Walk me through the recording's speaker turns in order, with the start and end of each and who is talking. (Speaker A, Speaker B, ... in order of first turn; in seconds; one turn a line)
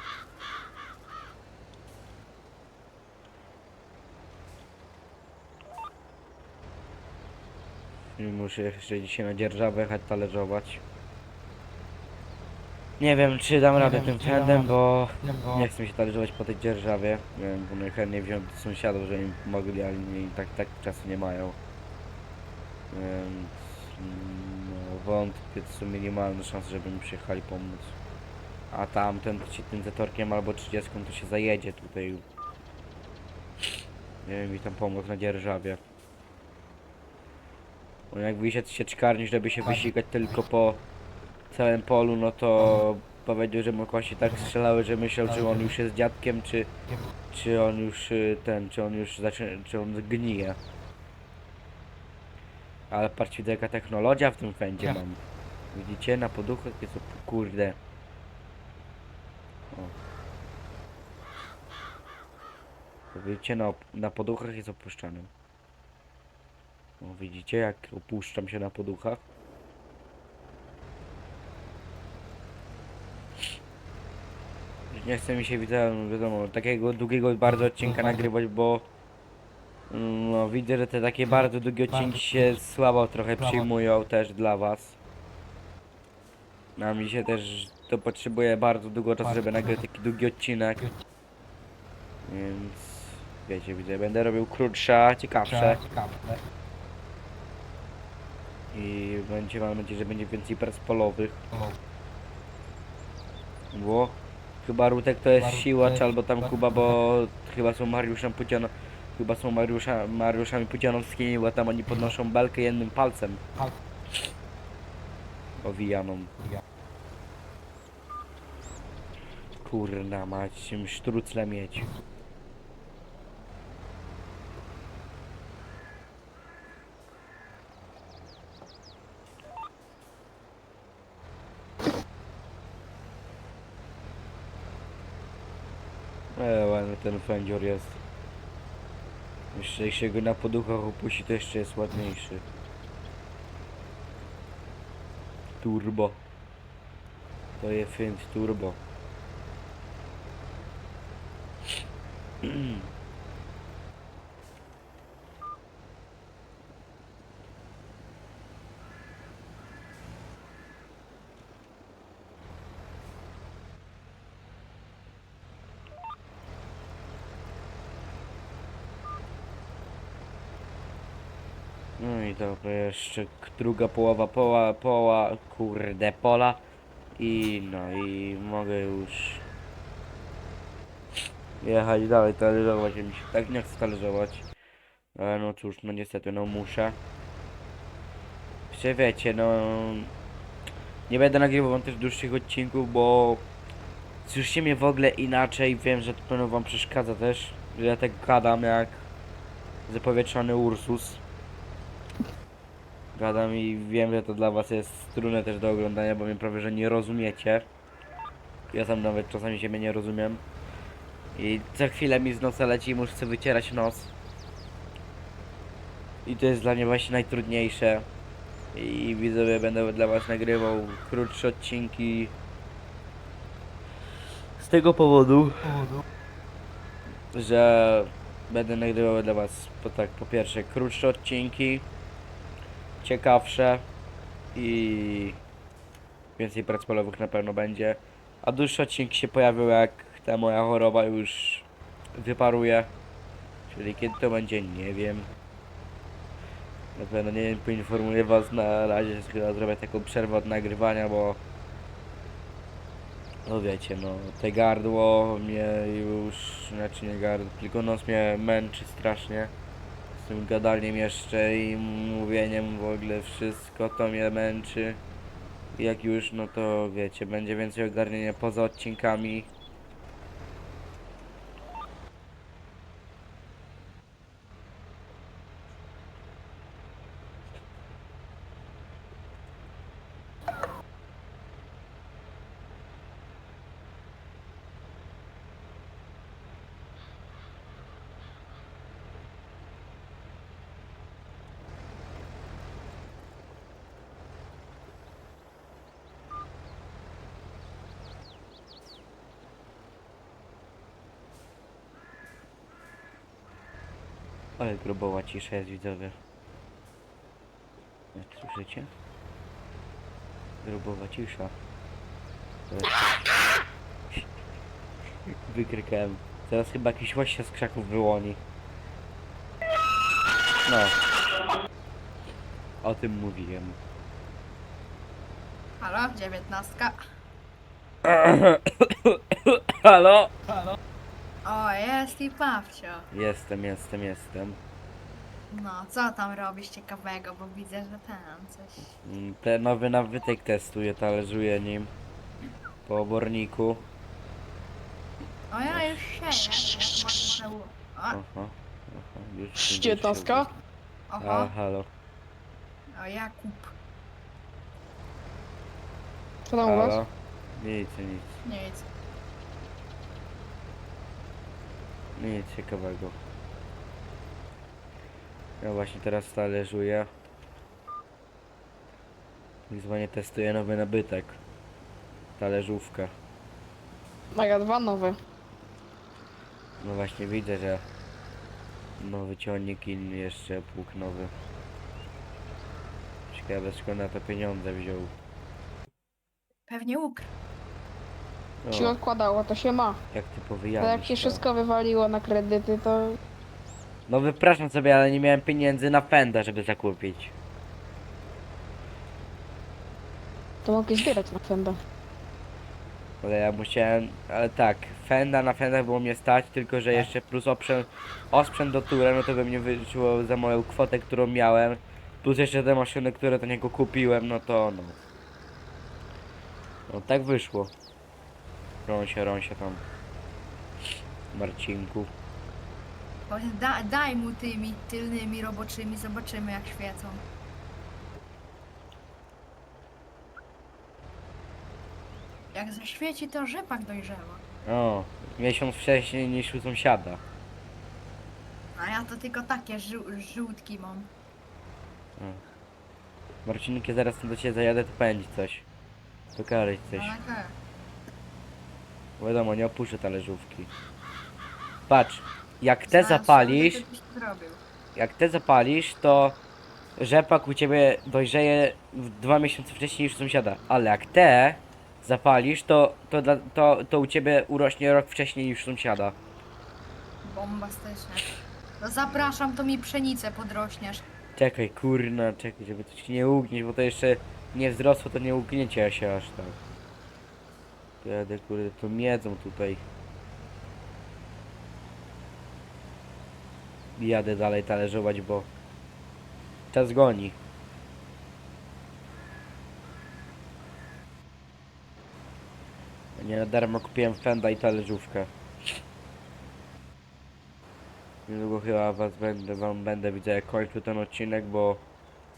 Speaker A: 8.2-10.8
Speaker A: 13.0-21.6
Speaker A: 22.9-27.9
Speaker A: 28.7-32.2
Speaker A: 34.2-35.8
Speaker A: 38.1-40.8
Speaker A: 41.5-46.7
Speaker A: 47.3-50.6
Speaker A: 52.9-55.2
Speaker A: 55.7-57.8
Speaker A: 63.1-65.3
Speaker A: 67.0-69.2
Speaker A: 74.9-78.9
Speaker A: 79.9-85.0
Speaker A: 86.8-90.9
Speaker A: 92.3-95.8
Speaker A: 98.7-101.5
Speaker A: 103.7-113.4
Speaker A: 115.6-116.3
Speaker A: 119.6-121.9
Speaker A: 136.3-138.0
Speaker A: 139.5-142.4
Speaker A: 145.6-146.2
Speaker A: 147.6-148.8
Speaker A: 152.4-152.8
Speaker A: 172.0-176.6
Speaker A: 177.2-179.4
Speaker A: 181.6-184.5
Speaker A: 185.2-187.0
Speaker A: 188.7-190.1
Speaker A: 191.1-193.5
Speaker A: 194.2-199.1
Speaker A: 199.9-201.2
Speaker A: 203.2-207.7
Speaker A: 208.7-210.4
Speaker A: 211.3-214.1
Speaker A: 216.3-218.1
Speaker A: 218.7-222.3
Speaker A: 224.6-225.9
Speaker A: 227.3-231.9
Speaker A: 233.0-233.9
Speaker A: 234.6-235.4
Speaker A: 236.4-242.9
Speaker A: 243.7-245.3
Speaker A: 247.0-251.4
Speaker A: 253.5-259.5
Speaker A: 260.1-265.0
Speaker A: 265.7-269.5
Speaker A: 304.6-306.2
Speaker A: 308.1-308.9
Speaker A: 310.6-311.5
Speaker A: 312.7-313.3
Speaker A: 315.4-318.4
Speaker A: 320.6-320.9
Speaker A: 322.8-323.8
Speaker B: 325.8-327.0
Speaker A: 328.1-330.3
Speaker B: 331.4-333.1
Speaker A: 333.1-334.6
Speaker B: 335.5-338.9
Speaker A: 338.9-341.9
Speaker A: 342.9-343.8
Speaker B: 345.5-348.2
Speaker A: 345.7-346.0
Speaker A: 348.1-350.6
Speaker C: 349.6-350.5
Speaker B: 351.1-351.5
Speaker A: 351.2-351.9
Speaker B: 352.9-353.7
Speaker C: 356.5-357.0
Speaker A: 356.6-358.4
Speaker B: 358.4-358.9
Speaker A: 362.2-363.1
Speaker A: 365.6-367.1
Speaker A: 369.7-371.4
Speaker A: 372.4-373.1
Speaker C: 374.3-375.2
Speaker A: 376.8-377.8
Speaker A: 379.0-381.3
Speaker A: 383.3-385.1
Speaker B: 386.7-387.3
Speaker A: 388.6-389.0
Speaker C: 388.7-390.0
Speaker A: 390.1-391.4
Speaker C: 390.8-393.2
Speaker A: 394.1-397.3
Speaker C: 400.6-401.8
Speaker A: 403.2-415.0
Speaker A: 416.9-417.7
Speaker A: 418.9-419.8
Speaker A: 421.3-422.1
Speaker B: 423.3-427.2
Speaker B: 432.5-434.4
Speaker A: 434.6-437.2
Speaker B: 438.8-441.1
Speaker A: 442.2-442.4
Speaker A: 443.4-445.6
Speaker A: 446.4-447.1
Speaker B: 446.9-447.5
Speaker A: 449.2-450.7
Speaker A: 451.9-453.8
Speaker B: 452.9-454.6
Speaker A: 455.0-456.4
Speaker A: 457.0-466.2
Speaker B: 467.2-471.0
Speaker A: 469.1-469.3
Speaker A: 471.4-476.6
Speaker A: 478.0-479.8
Speaker A: 484.0-485.5
Speaker A: 486.7-487.4
Speaker A: 493.1-495.3
Speaker A: 498.3-501.8